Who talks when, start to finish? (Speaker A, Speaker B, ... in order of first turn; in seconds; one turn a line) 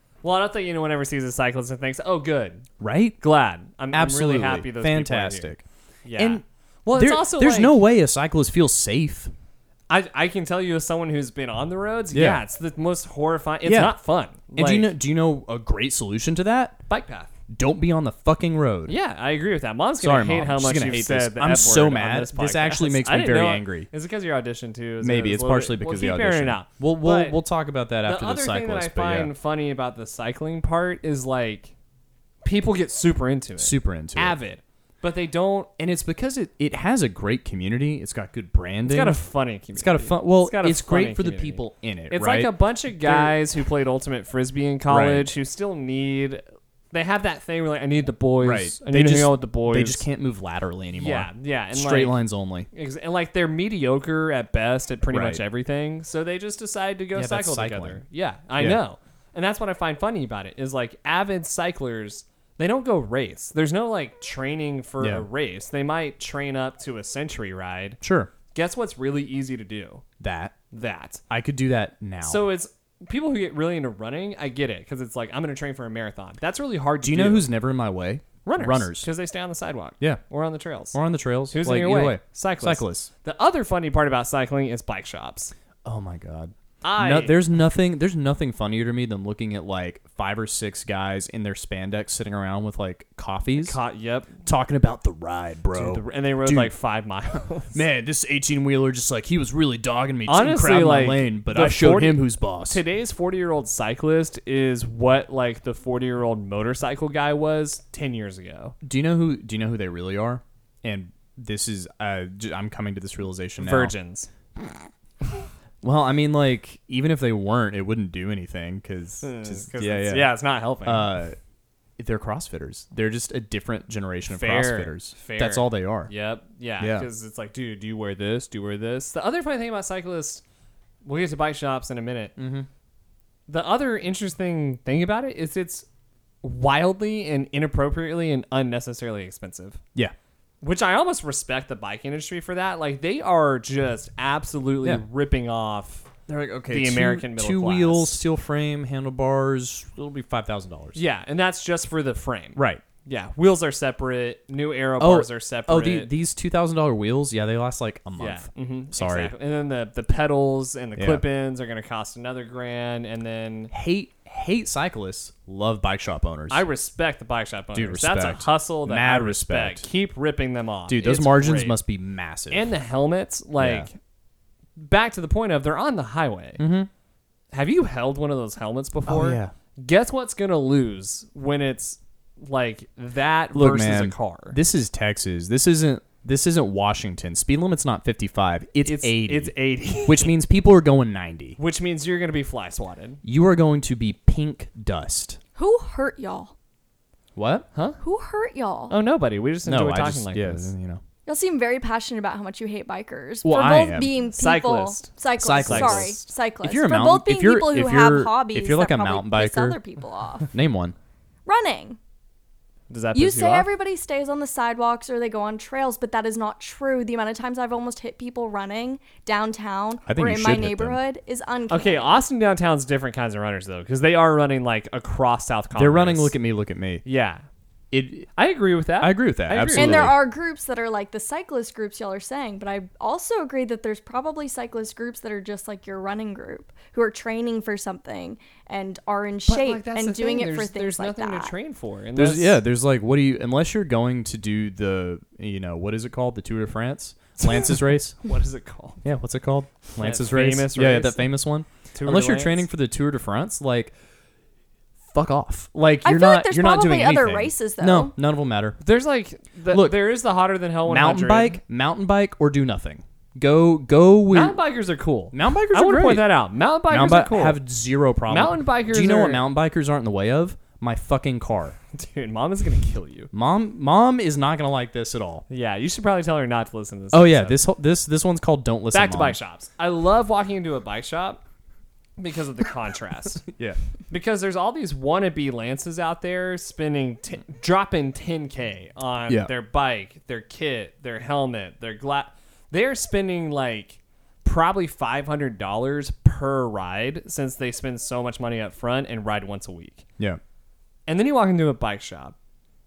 Speaker A: 0.2-2.7
Speaker B: 2.8-3.2
Speaker A: 3.2-7.8
Speaker B: 3.9-5.6
Speaker B: 6.2-9.3
Speaker A: 9.9-14.9
Speaker B: 12.1-12.4
Speaker B: 13.6-13.9
Speaker B: 14.5-16.8
Speaker A: 16.9-17.3
Speaker B: 17.5-18.9
Speaker A: 18.9-27.4
Speaker B: 20.0-23.9
Speaker B: 25.0-29.3
Speaker A: 28.0-31.7
Speaker A: 32.4-35.7
Speaker B: 33.6-34.4
Speaker B: 35.8-39.2
Speaker A: 38.9-50.0
Speaker B: 39.7-43.4
Speaker B: 44.9-45.3
Speaker B: 48.4-52.7
Speaker A: 50.9-52.2
Speaker A: 52.7-68.0
Speaker B: 55.1-55.4
Speaker B: 57.1-58.0
Speaker B: 65.0-65.3
Speaker B: 68.0-68.3
Speaker A: 68.5-70.0
Speaker B: 70.2-70.5
Speaker A: 70.7-71.2
Speaker B: 71.3-72.4
Speaker A: 72.2-77.5
Speaker B: 77.0-79.1
Speaker A: 78.4-81.0
Speaker B: 80.9-83.1
Speaker A: 81.5-85.5
Speaker B: 85.8-93.8
Speaker A: 86.8-87.4
Speaker A: 93.5-94.4
Speaker B: 94.4-96.7
Speaker A: 95.7-97.8
Speaker B: 97.7-102.8
Speaker A: 100.3-108.7
Speaker B: 108.8-113.9
Speaker A: 113.6-114.3
Speaker B: 115.8-120.3
Speaker A: 119.2-121.1
Speaker B: 120.8-121.4
Speaker B: 122.0-126.1
Speaker A: 124.3-130.4
Speaker B: 126.8-127.1
Speaker A: 131.0-132.3
Speaker B: 132.4-132.7
Speaker A: 133.5-135.9
Speaker A: 136.4-139.8
Speaker A: 140.6-146.1
Speaker B: 146.3-151.0
Speaker A: 146.7-148.2
Speaker A: 150.9-156.1
Speaker B: 152.6-152.8
Speaker B: 155.0-159.3
Speaker A: 158.2-163.7
Speaker B: 160.9-161.2
Speaker B: 163.7-166.6
Speaker A: 166.5-171.8
Speaker B: 167.7-169.9
Speaker B: 170.9-172.7
Speaker A: 172.5-174.0
Speaker B: 173.6-173.9
Speaker A: 174.8-176.6
Speaker B: 176.6-176.9
Speaker A: 177.5-184.6
Speaker B: 179.1-179.5
Speaker B: 183.5-191.6
Speaker A: 188.8-190.3
Speaker A: 191.6-193.2
Speaker B: 193.2-195.4
Speaker C: 195.6-196.5
Speaker B: 197.4-197.7
Speaker C: 198.0-198.9
Speaker A: 198.9-200.7
Speaker B: 199.6-201.0
Speaker C: 201.2-210.5
Speaker B: 203.4-204.1
Speaker A: 204.3-206.2
Speaker B: 205.4-209.8
Speaker B: 210.5-210.9
Speaker C: 211.4-212.0
Speaker A: 212.9-213.7
Speaker C: 213.1-222.2
Speaker B: 220.1-221.0
Speaker A: 221.7-226.3
Speaker B: 225.8-227.0
Speaker A: 227.0-227.4
Speaker B: 227.9-228.3
Speaker A: 228.4-230.1
Speaker B: 229.0-230.2
Speaker C: 229.7-241.5
Speaker A: 239.4-242.6
Speaker B: 242.2-248.2
Speaker A: 247.4-249.0
Speaker B: 249.0-253.9
Speaker A: 249.9-251.3
Speaker A: 251.9-252.7
Speaker B: 255.1-258.8
Speaker C: 256.0-258.1
Speaker A: 258.8-261.6
Speaker B: 259.7-260.0
Speaker B: 260.8-264.6
Speaker A: 264.3-267.6
Speaker B: 265.3-266.3
Speaker B: 266.9-271.8
Speaker A: 268.3-269.4
Speaker A: 271.9-273.3
Speaker B: 273.3-275.4
Speaker A: 275.5-277.6
Speaker B: 277.1-279.4
Speaker A: 278.9-281.4
Speaker A: 282.2-283.4
Speaker B: 283.4-283.8
Speaker A: 284.1-300.0
Speaker A: 301.1-302.4